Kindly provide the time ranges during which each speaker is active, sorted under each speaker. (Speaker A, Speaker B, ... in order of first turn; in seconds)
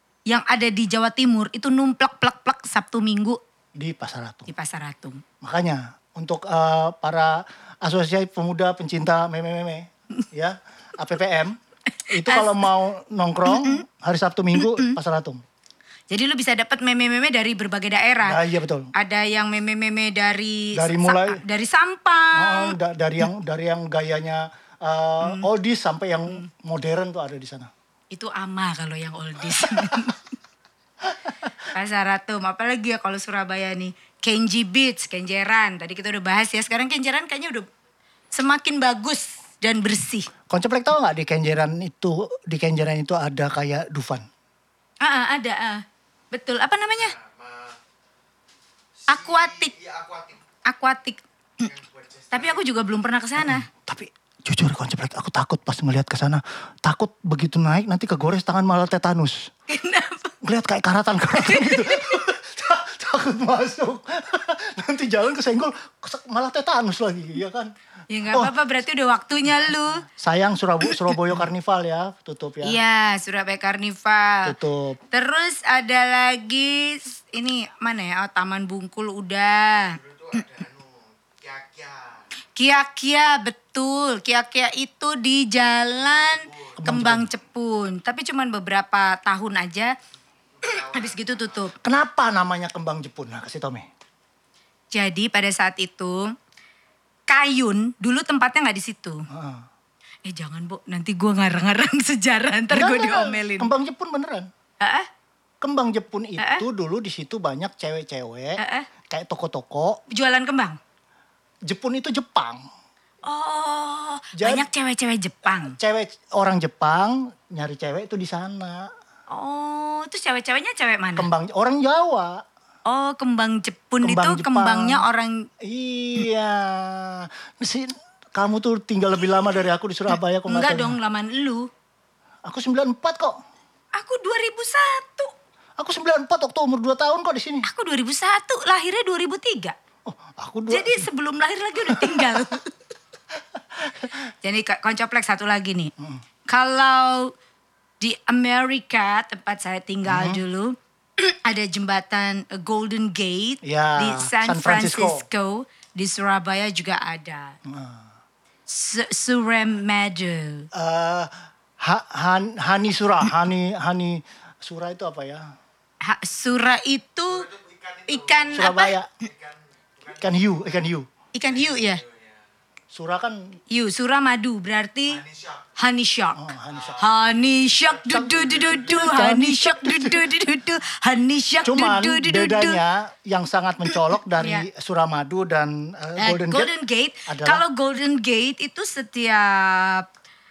Speaker A: 0.3-3.4, 4.5-5.2, 12.1-12.6, 13.5-13.8, 14.6-15.0, 16.1-18.4, 18.9-22.8, 25.2-25.5, 28.1-30.2, 31.7-37.7, 38.3-40.3, 45.0-47.1, 49.1-49.7, 50.7-51.7, 52.3-53.7, 59.7-60.4, 61.3-62.3, 68.1-70.0, 72.6-74.5, 75.1-80.0, 82.6-90.0, 90.6-91.7, 94.9-96.3, 97.3-99.2, 100.2-103.7, 104.8-105.1, 106.4-106.6, 108.6-108.9, 110.1-110.8, 113.2-115.8, 119.3-121.3, 122.9-125.5, 130.5-131.7, 133.9-135.3, 137.7-139.8, 140.7-142.7, 144.4-145.9, 146.5-147.3, 148.0-157.6, 158.7-160.7, 166.0-167.5, 168.1-168.9, 171.3-172.0, 173.7-175.2, 175.8-182.8, 184.4-184.7, 186.2-190.1
Speaker B: 3.8-4.5, 5.4-11.6, 12.1-15.4, 18.2-18.9, 20.8-21.4, 22.3-27.7, 40.5-44.3, 53.4-59.5, 60.4-67.7, 70.1-72.8, 74.5-75.0, 86.8-87.3, 91.8-93.9, 99.3-99.7, 102.7-104.5, 105.6-110.0, 111.7-112.6, 114.4-114.7, 115.5-118.9, 121.2-122.4, 124.0-125.0, 125.6-131.0, 132.4-133.4, 135.8-137.7, 140.1-141.1, 141.9-142.5, 150.1-150.4, 153.6-155.2, 157.7-158.1, 160.7-165.5, 168.5-169.1, 170.1-171.1, 172.9-173.6, 176.3-177.1, 178.1-180.3, 181.6-186.7, 187.3-187.6
Speaker C: 46.9-47.8, 49.0-50.4, 51.6-52.7, 79.7-82.2, 86.0-86.8, 90.5-91.7, 167.3-170.9, 171.4-172.5, 175.1-175.8, 176.7-178.9